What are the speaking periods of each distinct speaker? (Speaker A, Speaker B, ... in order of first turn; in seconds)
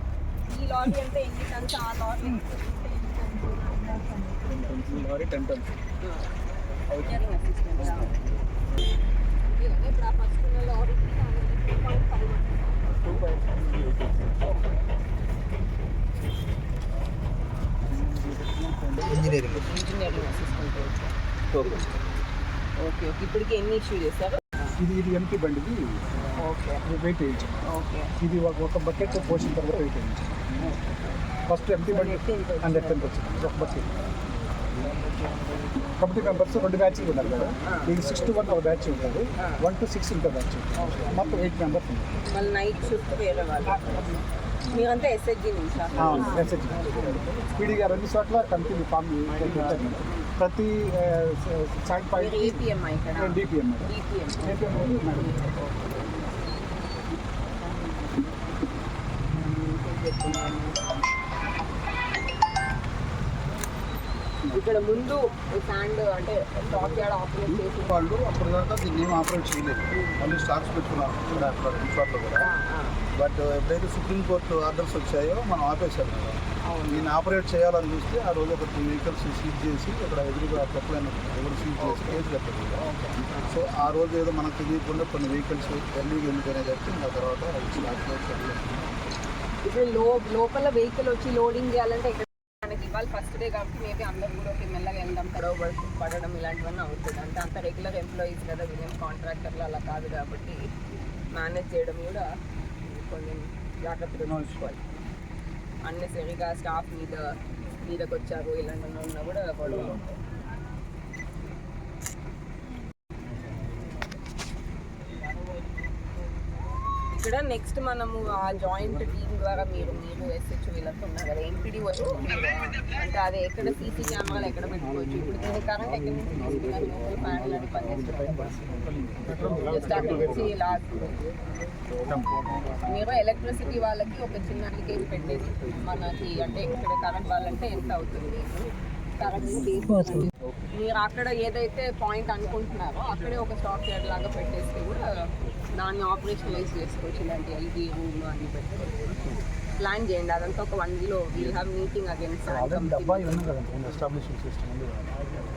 Speaker A: 0.5-4.1, 6.0-6.3, 6.9-8.2, 9.5-13.2, 19.4-21.1, 22.8-24.8, 26.4-26.8, 27.6-28.1, 31.9-33.1, 37.6-38.0, 39.4-39.6, 40.8-41.3, 42.3-46.5, 49.5-50.3, 52.2-56.4, 59.3-60.9, 64.5-67.9, 69.9-70.2, 72.4-73.0, 76.6-77.1, 81.8-82.2, 82.8-83.6, 89.6-100.7, 101.3-104.8, 105.8-110.2, 117.1-128.6, 129.5-131.2, 132.8-149.2, 149.8-153.5
Speaker B: 4.4-5.7, 17.9-19.5, 24.8-26.0, 26.9-27.5, 28.2-30.6, 31.5-33.9, 36.0-42.2, 43.8-44.2, 46.0-53.9, 54.4-55.4, 104.2-104.7, 129.1-130.3, 132.0-132.3, 152.5-155.2
Speaker C: 46.6-47.0, 67.5-72.5, 73.1-82.8, 83.4-88.8